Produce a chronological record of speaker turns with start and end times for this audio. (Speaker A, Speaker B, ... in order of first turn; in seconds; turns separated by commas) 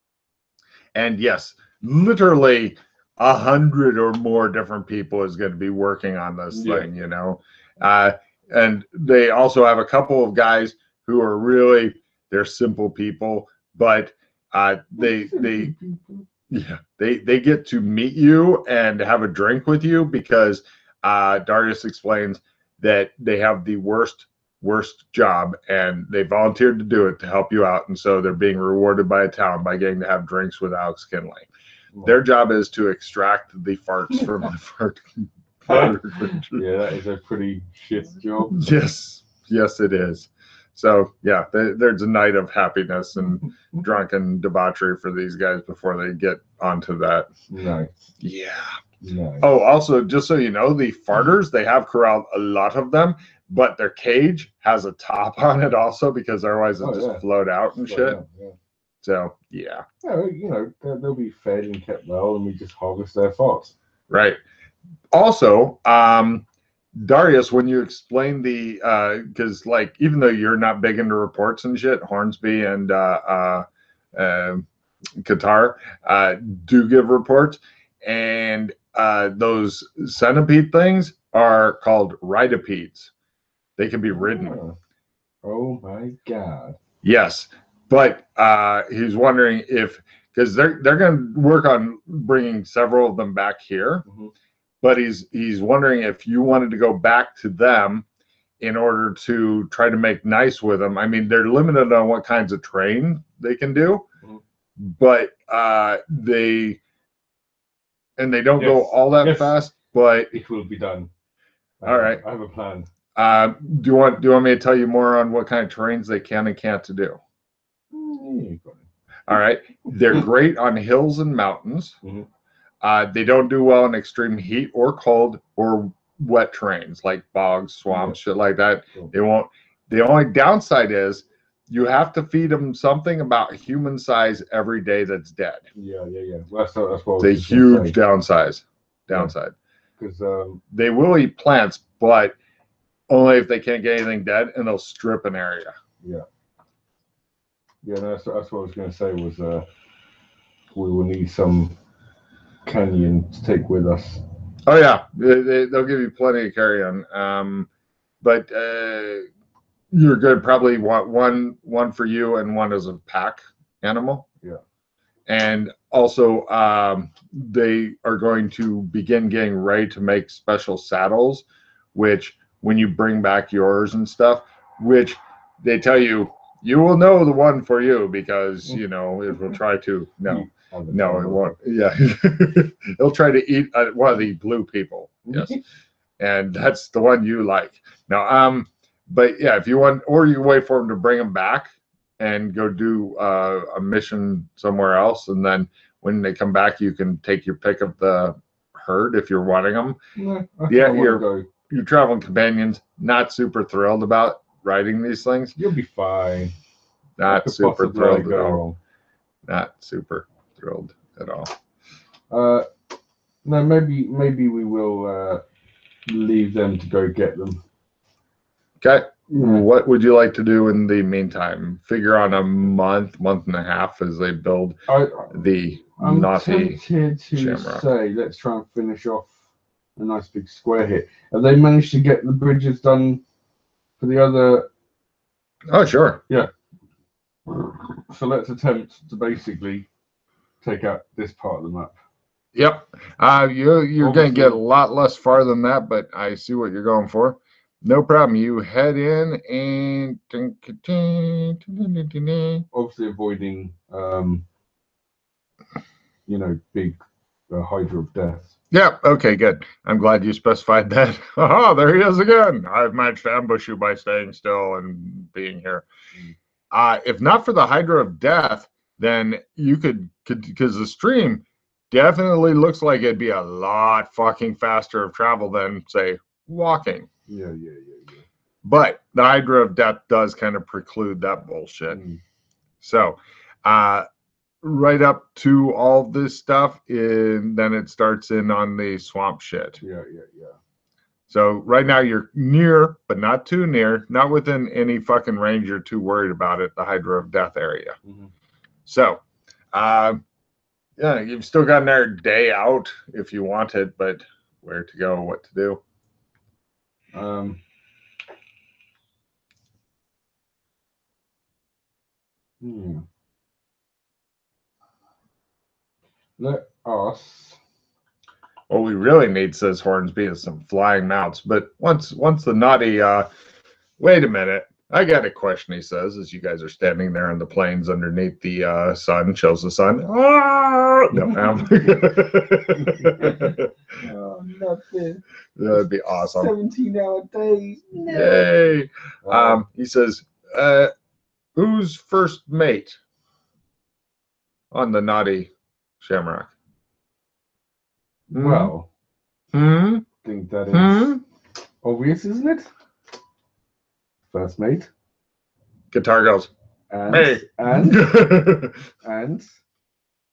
Speaker A: 0.9-15.7, Speaker B: 6.5-6.9, Speaker B: 15.0-16.3, Speaker A: 16.5-31.5, Speaker A: 32.0-35.0, Speaker A: 35.6-36.6, Speaker B: 36.5-38.6, Speaker A: 38.5-47.3, Speaker B: 47.5-48.0, Speaker A: 48.2-48.8, Speaker B: 49.0-49.5, Speaker A: 49.4-58.2, Speaker B: 56.8-57.2, Speaker B: 57.8-58.5, Speaker A: 59.0-59.8, Speaker B: 60.0-63.7, Speaker A: 64.1-64.4, Speaker A: 65.1-66.4, Speaker A: 67.0-74.7, Speaker A: 75.2-83.1, Speaker A: 83.8-84.6, Speaker B: 84.1-84.8, Speaker B: 85.4-86.8, Speaker A: 87.0-94.0, Speaker B: 94.0-94.3, Speaker A: 94.8-98.0, Speaker A: 98.6-104.0, Speaker A: 104.8-106.8, Speaker A: 108.2-110.3, Speaker B: 108.6-109.5, Speaker B: 110.3-111.1, Speaker B: 111.8-112.9, Speaker A: 111.8-112.2, Speaker A: 113.2-117.2, Speaker B: 117.9-118.8, Speaker A: 119.3-122.0, Speaker A: 122.8-135.7, Speaker B: 127.9-128.2, Speaker B: 135.8-137.9, Speaker A: 137.2-139.5, Speaker B: 140.0-140.6, Speaker A: 140.7-142.3, Speaker A: 143.1-145.7, Speaker B: 147.8-149.6, Speaker B: 150.7-151.8, Speaker B: 152.6-154.2, Speaker A: 154.7-157.7, Speaker A: 158.2-159.2, Speaker A: 159.9-164.3, Speaker A: 165.3-185.6, Speaker B: 180.3-181.6, Speaker B: 185.2-185.6, Speaker A: 186.2-200.0, Speaker B: 200.2-201.5, Speaker A: 200.7-205.5, Speaker B: 205.5-206.5, Speaker A: 207.2-208.6, Speaker B: 207.2-208.8, Speaker A: 209.5-211.5, Speaker B: 212.3-212.7, Speaker B: 213.4-215.4, Speaker B: 216.1-217.6, Speaker A: 218.8-224.8, Speaker B: 219.3-219.6, Speaker B: 224.9-225.4, Speaker A: 225.3-226.8, Speaker B: 226.0-229.4, Speaker A: 227.3-227.8, Speaker B: 230.0-233.2, Speaker B: 234.0-234.7, Speaker A: 235.7-236.2, Speaker B: 237.5-239.9, Speaker B: 240.6-241.9, Speaker A: 242.5-252.7, Speaker B: 244.0-244.6, Speaker B: 252.7-254.4, Speaker B: 256.3-257.0, Speaker B: 257.5-258.5, Speaker A: 258.7-265.9, Speaker A: 266.7-277.1, Speaker B: 277.3-278.2, Speaker A: 278.6-282.0, Speaker B: 281.9-282.2, Speaker A: 282.8-284.1, Speaker A: 284.6-289.8, Speaker B: 289.8-290.6, Speaker A: 291.3-297.9, Speaker B: 298.0-298.3, Speaker A: 298.9-299.2, Speaker A: 299.7-300.2, Speaker A: 301.0-305.8, Speaker B: 307.1-307.6, Speaker B: 312.6-313.0, Speaker B: 316.4-317.6, Speaker A: 318.7-323.3, Speaker A: 324.0-333.7, Speaker B: 331.1-332.2, Speaker B: 332.7-335.2, Speaker A: 335.6-336.5, Speaker B: 335.7-338.5, Speaker A: 338.1-340.9, Speaker B: 339.2-339.6, Speaker A: 341.6-343.0, Speaker A: 344.7-346.5, Speaker B: 348.3-348.9, Speaker A: 348.3-348.7, Speaker A: 349.5-350.1, Speaker B: 350.2-351.1, Speaker A: 350.7-351.2, Speaker B: 351.8-352.7, Speaker B: 354.3-354.9, Speaker A: 355.9-356.5, Speaker B: 356.9-358.1, Speaker A: 357.1-358.8, Speaker B: 359.0-359.6